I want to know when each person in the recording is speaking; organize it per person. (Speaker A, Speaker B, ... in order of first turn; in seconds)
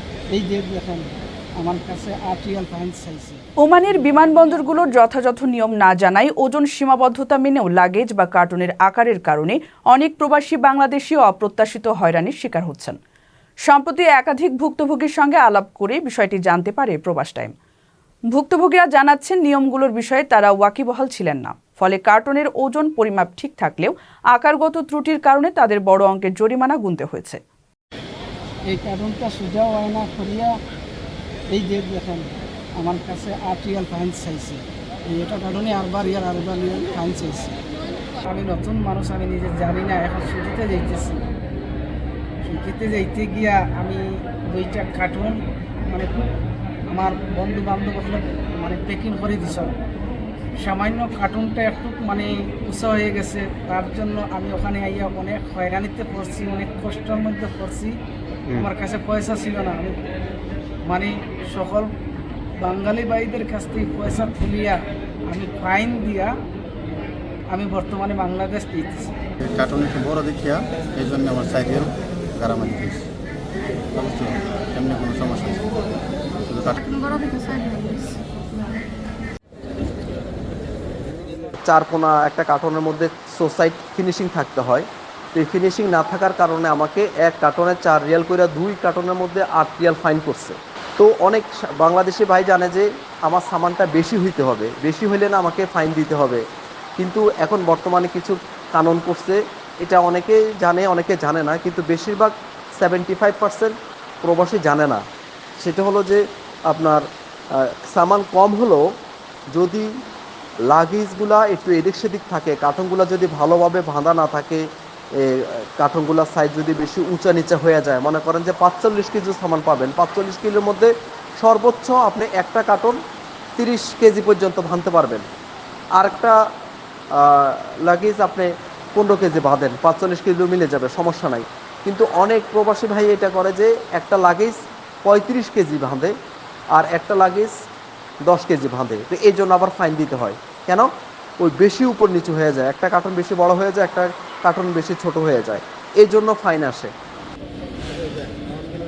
Speaker A: 0.3-3.4, 28.7-30.6, 31.5-37.6, 38.2-41.3, 42.5-45.4, 45.9-46.2, 46.9-49.7, 50.6-58.0, 58.6-60.0, 60.9-61.9, 62.6-66.3, 67.5-69.2
Speaker B: 3.6-13.0, 13.7-17.5, 18.3-27.4
Speaker C: 69.4-73.1, 73.9-75.7, 76.4-76.9
Speaker D: 76.8-78.8
Speaker E: 81.6-96.4, 97.0-105.0, 105.6-108.8, 109.5-109.9, 110.7-114.6, 115.2-123.0, 123.6-125.2, 126.0-126.4, 127.1-136.1, 136.7-137.6, 138.2-146.9